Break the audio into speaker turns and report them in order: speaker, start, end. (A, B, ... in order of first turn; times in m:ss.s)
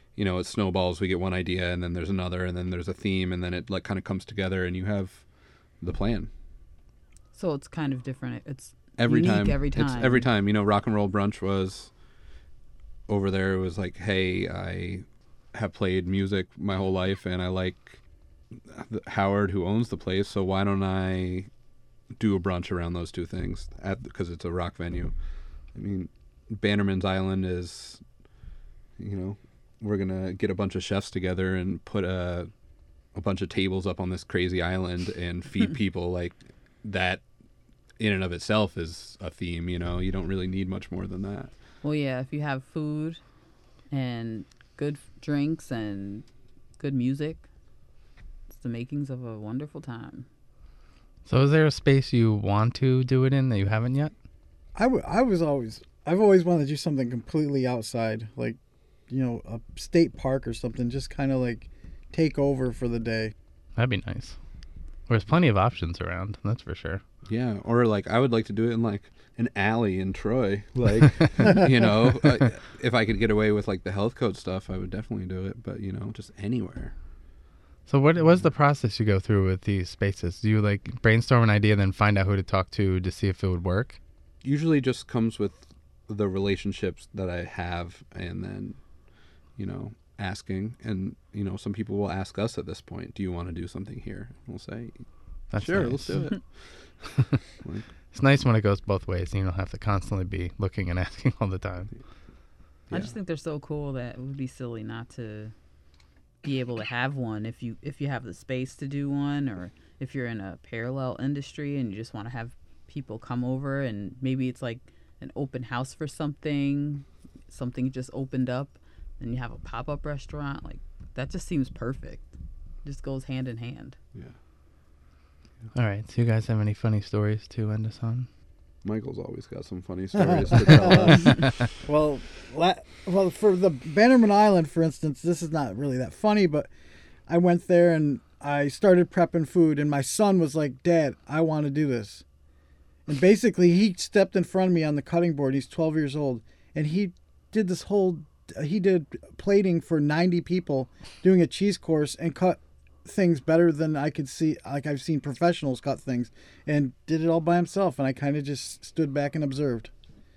0:00.1-0:05.3 A
0:05.8-0:06.3 A
0:07.3-0:10.3 B
0:09.0-0:11.9 A
0:13.1-0:18.0 A
0:18.5-0:21.5 A
0:22.2-0:25.2 A
0:25.7-0:28.0 A
0:29.0-0:32.5 A
0:33.1-0:37.2 A
0:38.0-0:41.5 A
0:41.8-0:43.2 B
0:43.9-0:46.3 B
0:46.8-0:47.5 B
0:48.5-0:50.3 B
0:51.3-0:54.1 C
0:54.8-1:03.3 D
1:03.8-1:04.4 C
1:05.1-1:07.0 C
1:07.3-1:16.9 A
1:17.9-1:24.0 C
1:24.4-1:28.8 A
1:29.6-1:36.9 A
1:35.5-1:36.5 C
1:37.0-1:37.4 C
1:37.6-1:37.9 A
1:38.1-1:42.0 C
1:42.9-1:43.1 A
1:42.9-1:45.5 B
1:46.4-2:04.0 B
2:05.7-2:08.3 C
2:08.8-2:11.6 A
2:10.2-2:16.7 D
2:17.3-2:22.2 D
2:23.1-2:39.9 D